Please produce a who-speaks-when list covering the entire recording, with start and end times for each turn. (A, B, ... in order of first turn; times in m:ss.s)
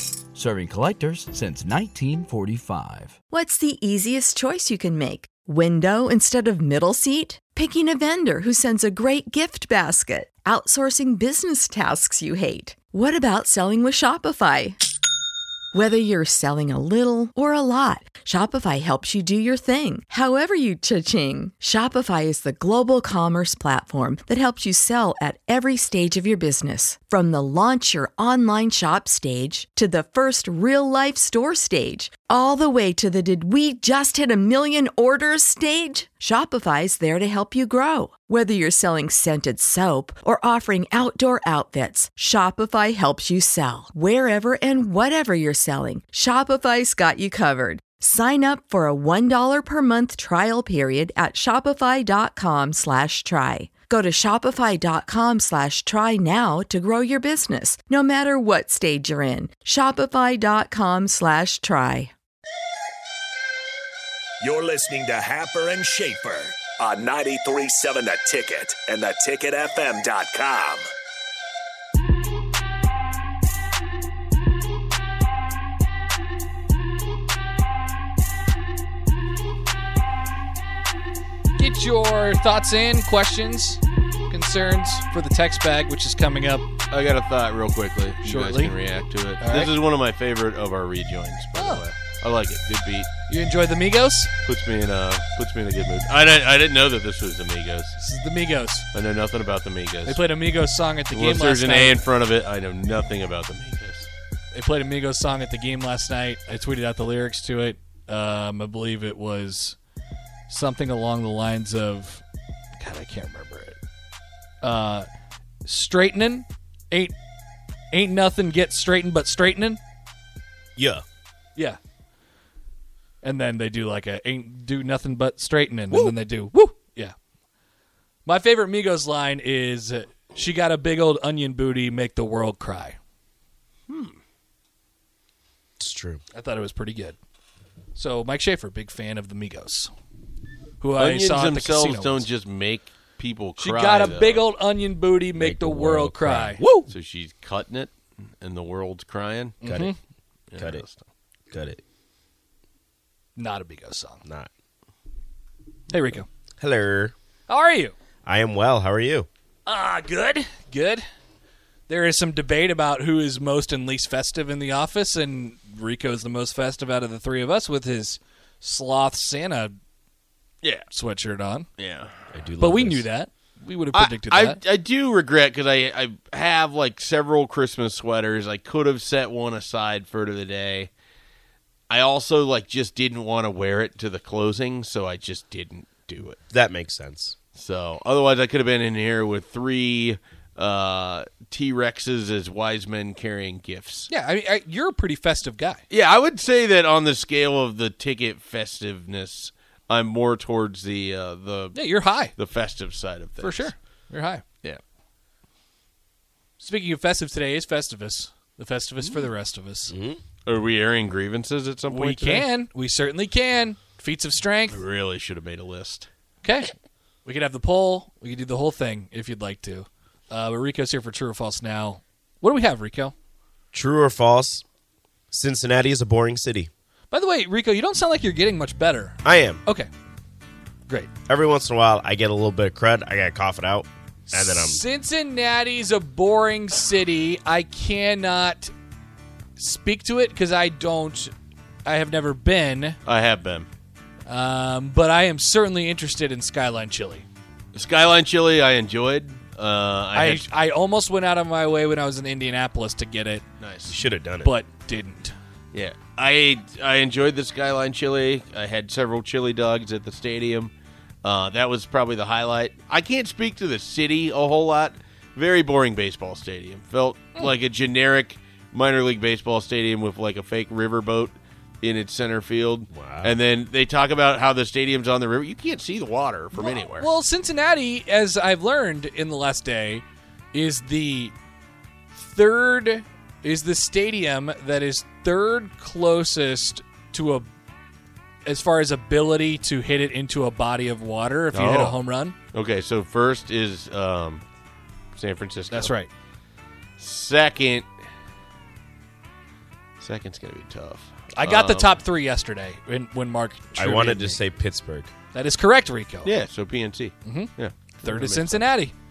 0:00.3-0:03.2 A
0:03.3-0:14.8 B
0:15.7-1:02.1 B
1:04.4-1:10.8 C
1:21.6-1:26.6 D
1:26.9-1:33.1 E
1:28.2-1:29.8 D
1:31.6-1:31.9 D
1:33.3-1:34.3 D
1:34.4-1:38.0 E
1:38.0-1:38.9 D
1:38.9-1:40.2 E
1:40.0-1:42.0 D
1:41.1-1:44.1 E
1:44.5-1:49.8 D
1:50.5-1:52.2 D
1:52.8-1:53.8 D
1:54.6-1:55.1 D
1:55.6-1:57.2 D
1:57.9-1:59.8 D
2:00.8-2:01.0 F
2:03.2-2:07.1 D
2:08.2-2:13.0 D
2:13.9-2:14.2 E
2:15.8-2:16.2 F
2:16.3-2:17.2 D
2:18.0-2:19.9 D
2:20.8-2:22.3 D
2:21.0-2:24.4 E
2:23.6-2:26.7 D
2:25.4-2:26.9 F
2:26.9-2:29.6 E
2:29.6-2:29.9 D
2:29.6-2:29.9 F
2:30.5-2:31.0 E
2:30.6-2:30.8 F
2:31.5-2:31.8 F
2:33.4-2:34.2 D
2:34.2-2:34.5 F
2:35.9-2:36.3 D
2:36.6-2:37.1 F
2:37.5-2:37.9 D
2:38.2-2:39.3 F
2:39.6-2:41.0 D
2:41.9-2:49.7 D
2:50.9-2:51.7 D
2:51.8-2:52.1 E
2:52.3-2:53.1 F
2:52.6-2:54.6 D
2:53.9-3:00.9 E
3:01.9-3:06.4 E
3:06.5-3:07.3 F
3:07.5-3:14.1 E
3:14.1-3:15.8 D
3:15.9-3:23.7 E
3:21.7-3:22.3 D
3:23.4-3:24.4 D
3:26.6-3:29.9 D
3:29.9-3:30.2 F
3:30.4-3:32.5 E
3:31.9-3:34.8 D
3:34.7-3:36.1 E
3:36.4-3:36.7 D
3:37.2-3:43.1 D
3:43.7-3:44.6 F
3:45.3-3:46.7 F
3:47.1-3:49.9 D
3:49.2-3:49.6 F
3:51.3-3:54.8 F
3:54.3-3:58.7 D
3:59.6-4:01.3 D
4:01.8-4:03.0 D
4:03.0-4:03.7 E
4:04.3-4:07.2 D
4:07.7-4:10.5 E
4:10.1-4:13.4 D
4:13.6-4:14.0 E
4:13.9-4:14.5 F
4:14.4-4:15.3 D
4:15.7-4:20.7 E
4:21.2-4:37.1 E
4:32.9-4:33.4 F
4:36.6-4:41.3 D
4:42.2-4:47.5 D
4:48.4-4:52.4 D
4:51.5-4:52.0 E
4:52.5-4:54.4 E
4:55.1-4:55.9 E
4:55.7-4:56.1 D
4:57.0-4:57.9 E
5:00.0-5:02.0 E
5:01.3-5:04.4 D
5:03.8-5:05.1 F
5:05.3-5:06.3 D
5:06.2-5:08.7 E
5:07.2-5:08.9 D